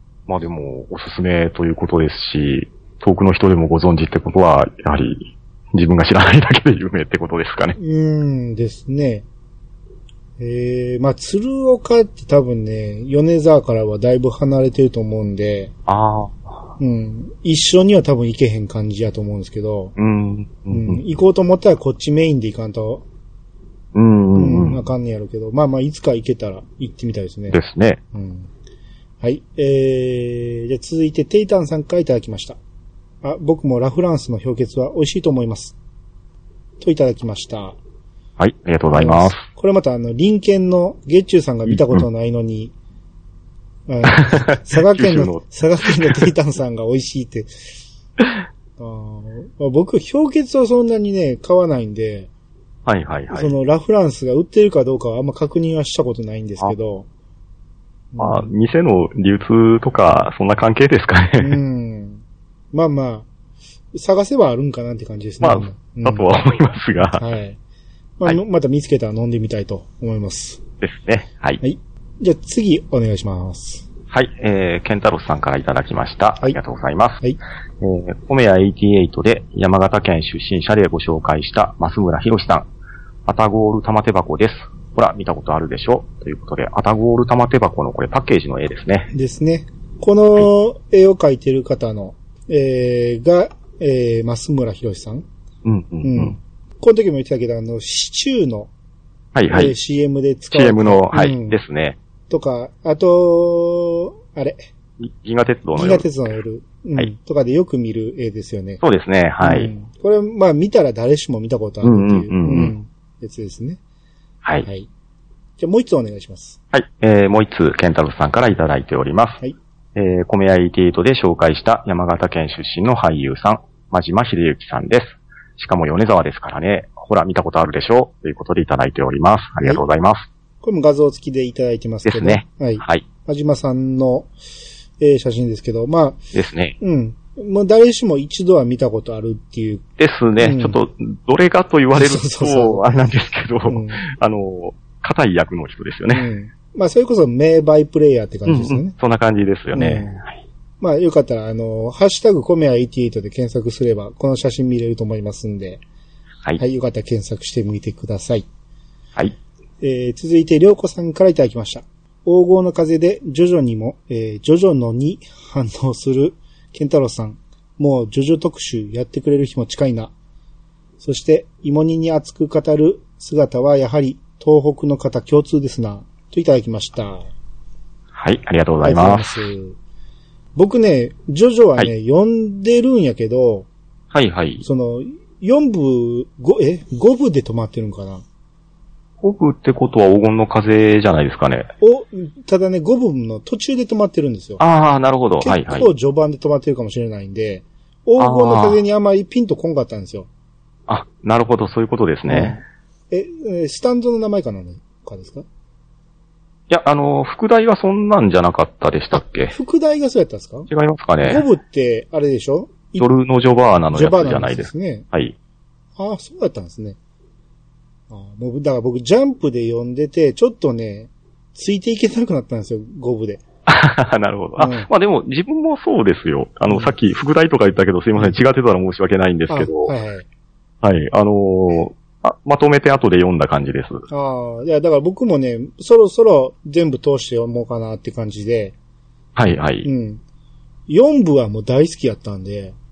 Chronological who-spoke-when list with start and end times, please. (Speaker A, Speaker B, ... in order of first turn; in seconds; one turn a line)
Speaker A: 0.3-7.8
Speaker B: 7.8-9.2
Speaker B: 10.4-15.7
Speaker A: 15.9-16.6
Speaker B: 16.8-19.9
Speaker A: 20.0-21.0
Speaker B: 20.7-23.0
Speaker A: 23.9-24.8
Speaker B: 24.3-27.6
Speaker A: 27.5-28.0
Speaker B: 28.1-28.5
Speaker B: 29.2-32.6
Speaker B: 33.2-35.7
Speaker B: 36.8-37.8
Speaker A: 38.4-39.4
Speaker B: 38.9-42.7
Speaker A: 41.7-42.0
Speaker B: 43.9-47.5
Speaker A: 44.1-45.4
Speaker B: 48.8-52.3
Speaker A: 52.9-53.5
Speaker B: 53.3-57.1
Speaker B: 58.1-58.5
Speaker A: 58.2-61.5
Speaker B: 61.4-63.3
Speaker B: 63.9-66.2
Speaker A: 65.4-67.2
Speaker B: 67.2-67.6
Speaker B: 68.2-70.6
Speaker A: 70.8-71.6
Speaker B: 71.6-73.9
Speaker A: 74.1-77.2
Speaker A: 77.8-82.7
Speaker A: 83.2-89.1
Speaker B: 89.1-95.2
Speaker A: 95.6-96.3
Speaker B: 96.0-98.7
Speaker A: 99.3-99.7
Speaker B: 99.5-101.6
Speaker A: 100.5-102.0
Speaker B: 102.3-104.7
Speaker A: 105.0-106.1
Speaker B: 105.7-108.8
Speaker A: 108.8-109.7
Speaker B: 109.4-113.8
Speaker A: 111.8-112.7
Speaker B: 114.6-114.9
Speaker B: 115.6-116.6
Speaker A: 116.7-119.4
Speaker A: 119.9-130.3
Speaker B: 130.6-134.3
Speaker A: 132.0-133.0
Speaker B: 135.0-136.2
Speaker A: 136.3-136.8
Speaker B: 136.8-139.8
Speaker A: 140.0-146.3
Speaker B: 140.4-140.8
Speaker B: 141.9-143.1
Speaker B: 143.7-144.0
Speaker B: 146.1-148.9
Speaker A: 148.4-150.3
Speaker B: 149.7-150.2
Speaker B: 150.8-155.8
Speaker B: 156.6-158.4
Speaker B: 159.8-170.1
Speaker B: 171.0-177.3
Speaker A: 178.1-179.5
Speaker B: 178.8-179.8
Speaker B: 180.6-183.7
Speaker A: 184.1-184.6
Speaker B: 184.6-188.2
Speaker A: 189.2-191.7
Speaker B: 191.8-194.6
Speaker A: 194.6-195.9
Speaker B: 195.4-200.3
Speaker A: 198.2-198.8
Speaker A: 200.9-202.6
Speaker B: 202.2-205.4
Speaker A: 206.7-209.5
Speaker B: 209.5-210.7
Speaker A: 210.7-211.4
Speaker B: 211.2-213.1
Speaker A: 213.0-215.3
Speaker B: 213.9-215.1
Speaker B: 216.0-217.0
Speaker B: 218.1-223.4
Speaker A: 223.7-229.9
Speaker B: 224.6-224.9
Speaker B: 226.7-226.9
Speaker B: 229.5-230.2
Speaker A: 230.8-234.0
Speaker B: 234.1-238.7
Speaker A: 239.3-239.9
Speaker B: 239.8-240.2
Speaker B: 240.9-242.7